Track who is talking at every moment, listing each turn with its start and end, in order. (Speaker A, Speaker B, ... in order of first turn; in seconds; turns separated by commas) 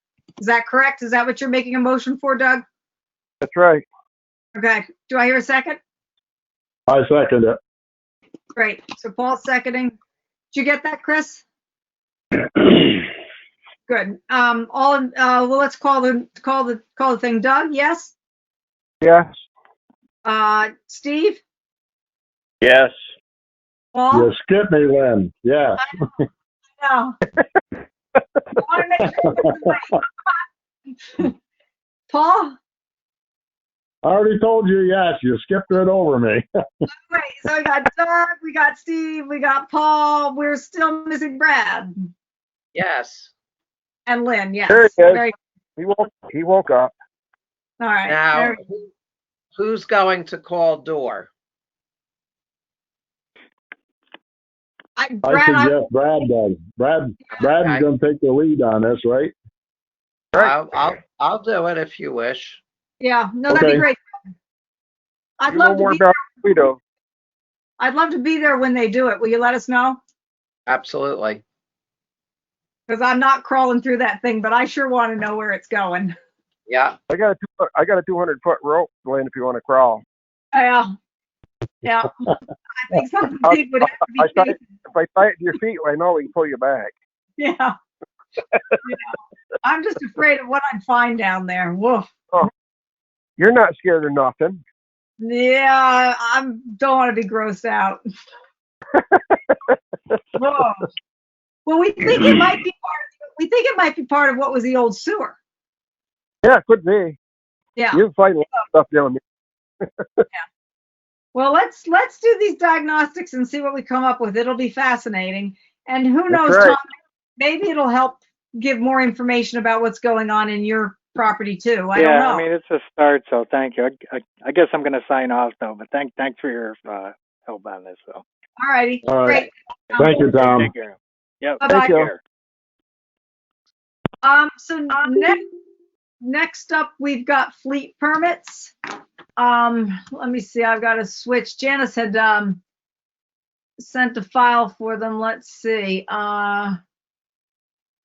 Speaker A: 0.4-2.6, Speaker B: 3.4-3.8, Speaker A: 4.5-5.8, Speaker C: 6.9-7.6, Speaker A: 8.5-9.9, Speaker A: 10.5-11.4, Speaker A: 13.9-18.1, Speaker B: 19.0-19.4, Speaker A: 20.2-21.4, Speaker A: 23.9-24.3, Speaker C: 24.1-26.1, Speaker A: 26.8-27.1, Speaker A: 28.6-30.3, Speaker C: 29.1-29.5, Speaker A: 31.1-31.3, Speaker A: 32.1-32.5, Speaker C: 34.0-36.5, Speaker A: 36.9-42.0, Speaker D: 42.7-43.3, Speaker A: 44.1-45.3, Speaker B: 44.7-45.2, Speaker B: 45.8-46.9, Speaker A: 47.8-48.6, Speaker D: 48.1-48.9, Speaker D: 49.5-51.3, Speaker A: 55.0-55.8, Speaker C: 55.2-59.3, Speaker D: 57.6-57.9, Speaker D: 60.4-62.6, Speaker A: 63.0-64.0, Speaker C: 63.5-63.9, Speaker A: 65.4-66.1, Speaker B: 65.5-66.8, Speaker A: 67.8-70.0, Speaker D: 70.7-71.4, Speaker A: 72.9-76.1, Speaker D: 76.7-77.0, Speaker B: 77.1-80.0, Speaker A: 80.5-80.9, Speaker A: 81.8-84.7, Speaker B: 83.4-86.9, Speaker A: 87.4-87.7, Speaker A: 88.8-92.1, Speaker B: 93.4-94.6, Speaker A: 95.2-98.0, Speaker B: 98.9-100.2, Speaker A: 100.3-100.9, Speaker A: 101.7-105.4, Speaker B: 106.4-107.2, Speaker A: 107.8-108.0, Speaker B: 107.9-109.2, Speaker B: 109.8-110.2, Speaker A: 111.3-116.8, Speaker B: 116.3-116.8, Speaker A: 117.4-122.5, Speaker E: 121.9-128.2, Speaker A: 128.6-130.2, Speaker C: 129.1-130.7, Speaker E: 129.9-132.2, Speaker A: 131.6-132.0, Speaker B: 131.7-132.1, Speaker A: 134.2-135.4, Speaker A: 136.2-138.7, Speaker A: 139.4-142.6, Speaker A: 143.8-146.8